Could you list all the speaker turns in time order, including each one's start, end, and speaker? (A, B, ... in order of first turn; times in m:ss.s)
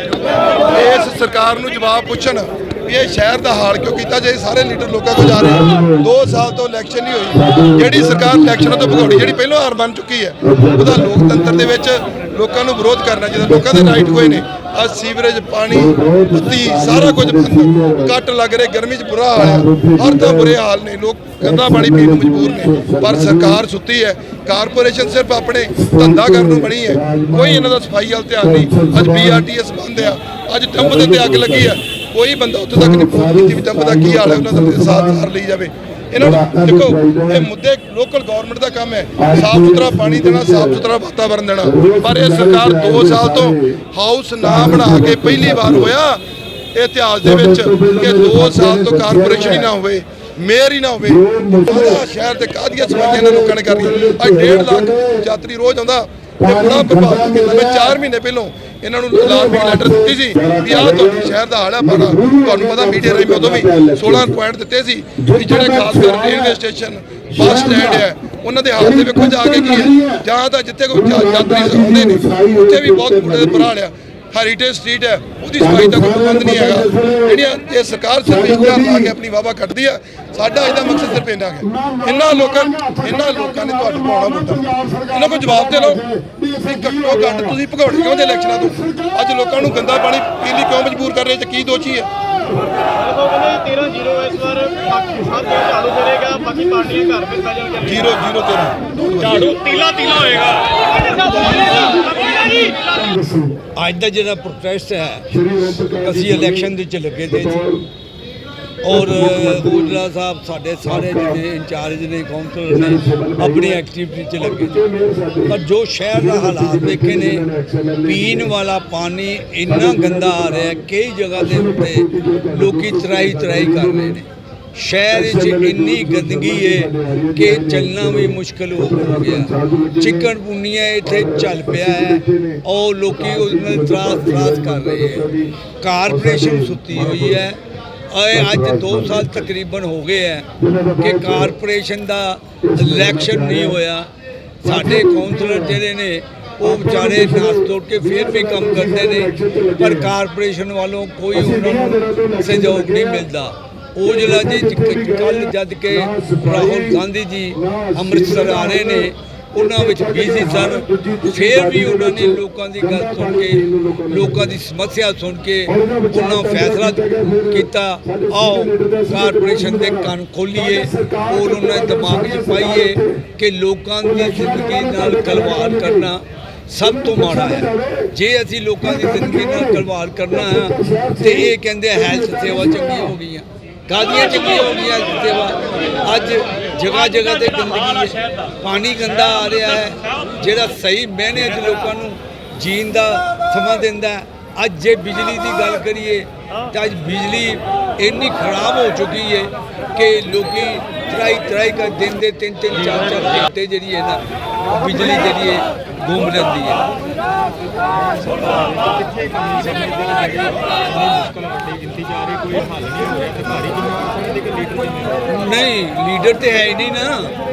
0:00.6-0:46.2 A
0:05.2-0:06.1 B
0:07.3-0:09.3 B
0:10.4-0:11.7 B
0:13.4-0:14.4 B
0:15.7-0:18.1 B
0:19.3-0:20.6 B
0:21.4-0:23.6 B
0:25.7-0:27.8 B
0:28.4-0:29.5 B
0:30.8-0:31.8 B
0:32.7-0:35.3 B
0:36.2-0:37.5 B
0:39.2-0:40.8 B
0:41.6-0:43.8 B
0:44.4-0:45.9 B
0:46.8-1:26.0 A
0:47.2-0:49.7 B
0:51.0-0:52.0 B
0:52.8-0:55.3 B
0:56.4-0:58.0 B
0:59.1-1:04.4 B
1:05.2-1:06.6 B
1:07.4-1:08.1 B
1:08.8-1:10.3 B
1:10.9-1:13.7 B
1:15.6-1:17.4 B
1:18.2-1:19.1 B
1:20.7-1:29.6 B
1:26.6-1:32.1 A
1:33.4-1:37.8 B
1:37.8-1:40.6 A
1:41.1-1:43.6 B
1:43.8-1:45.3 C
1:45.3-1:46.7 B
1:46.0-1:47.6 C
1:47.2-1:47.9 B
1:48.8-1:54.8 C
1:48.9-1:50.0 B
1:50.8-1:51.4 B
1:52.7-1:53.8 B
1:54.4-1:55.6 B
1:55.5-1:57.4 C
1:56.1-1:58.5 B
1:58.0-2:15.3 C
1:59.6-2:00.8 B
2:01.4-2:04.2 B
2:05.1-2:10.3 B
2:11.0-2:15.5 B
2:15.8-2:20.5 C
2:16.1-2:17.5 B
2:18.3-2:19.4 B
2:20.6-2:21.6 B
2:21.0-2:24.1 C
2:22.6-2:23.8 B
2:24.6-3:26.9 C
2:24.6-2:25.8 B
2:26.6-2:30.1 B
2:31.3-2:33.3 B
2:34.0-2:37.0 B
2:37.6-2:44.5 B
2:45.7-2:53.3 B
2:54.0-2:56.1 B
2:56.8-2:58.2 B
2:58.8-3:03.2 B
3:35.0-3:37.3 C